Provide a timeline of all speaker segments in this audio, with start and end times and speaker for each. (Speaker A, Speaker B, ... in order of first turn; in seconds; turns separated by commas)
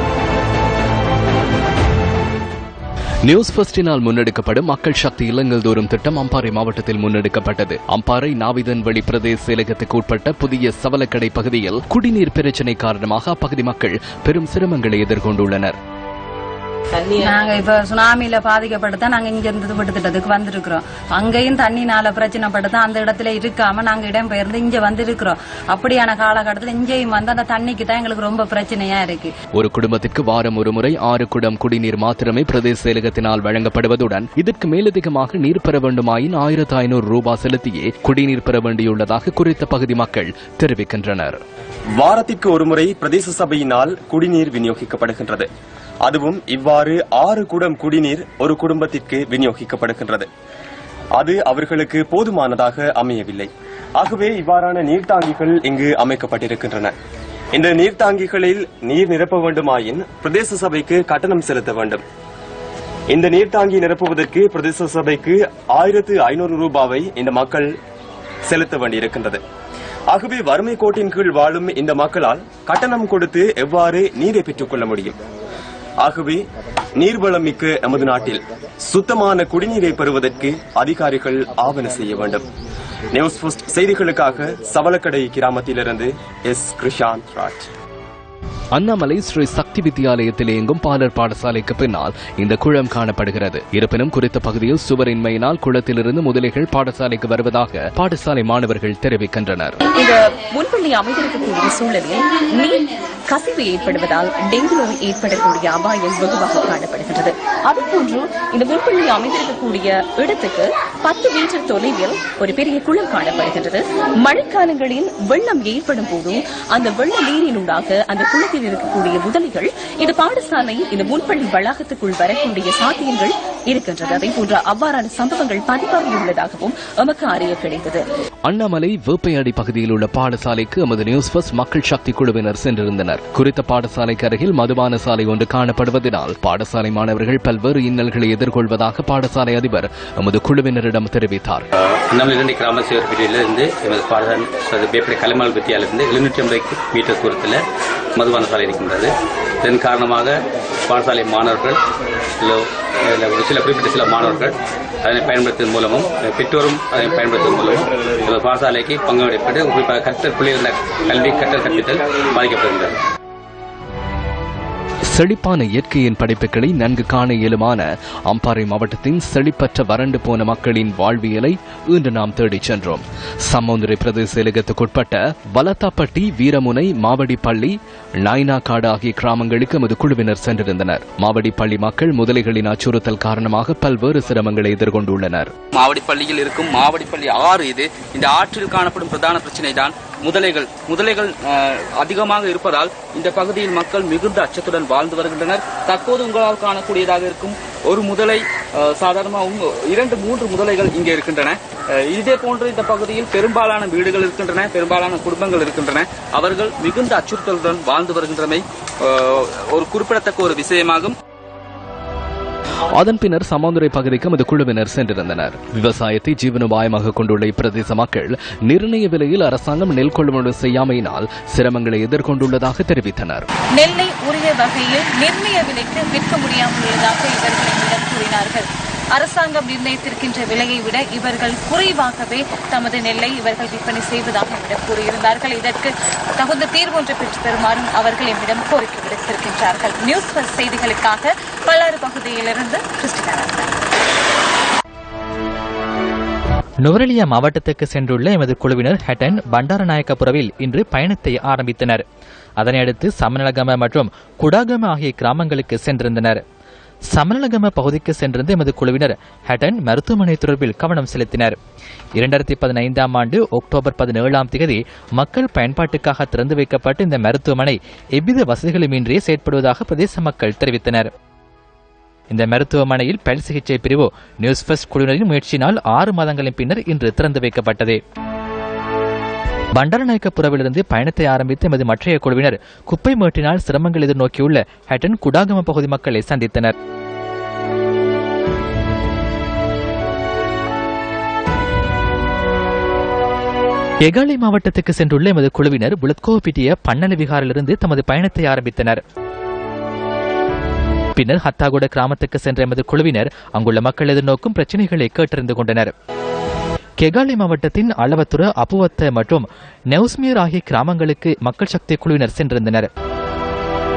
Speaker A: 3.2-15.8, Speaker B: 17.2-29.3, Speaker A: 29.6-41.4, Speaker C: 42.0-45.5, Speaker C: 46.0-50.3, Speaker C: 51.2-56.9, Speaker C: 57.5-62.0, Speaker C: 63.1-67.7, Speaker C: 68.5-69.4, Speaker C: 70.1-75.2, Speaker C: 76.0-76.4, Speaker C: 77.0-82.5, Speaker C: 83.1-87.7, Speaker A: 88.8-99.8, Speaker D: 99.9-128.0, Speaker A: 128.4-141.7, Speaker E: 142.1-147.6, Speaker E: 148.2-151.8, Speaker E: 152.4-163.0, Speaker A: 165.1-185.5, Speaker F: 185.8-191.3, Speaker F: 192.0-198.3, Speaker F: 199.0-201.5, Speaker F: 202.2-208.6, Speaker F: 209.8-211.1, Speaker A: 212.9-223.5, Speaker G: 223.8-243.7, Speaker H: 246.8-252.0, Speaker H: 252.6-256.4, Speaker H: 257.1-261.6, Speaker H: 262.2-271.1, Speaker H: 272.3-278.0, Speaker H: 279.8-286.7, Speaker H: 294.1-299.0, Speaker H: 301.1-305.9, Speaker H: 307.0-312.9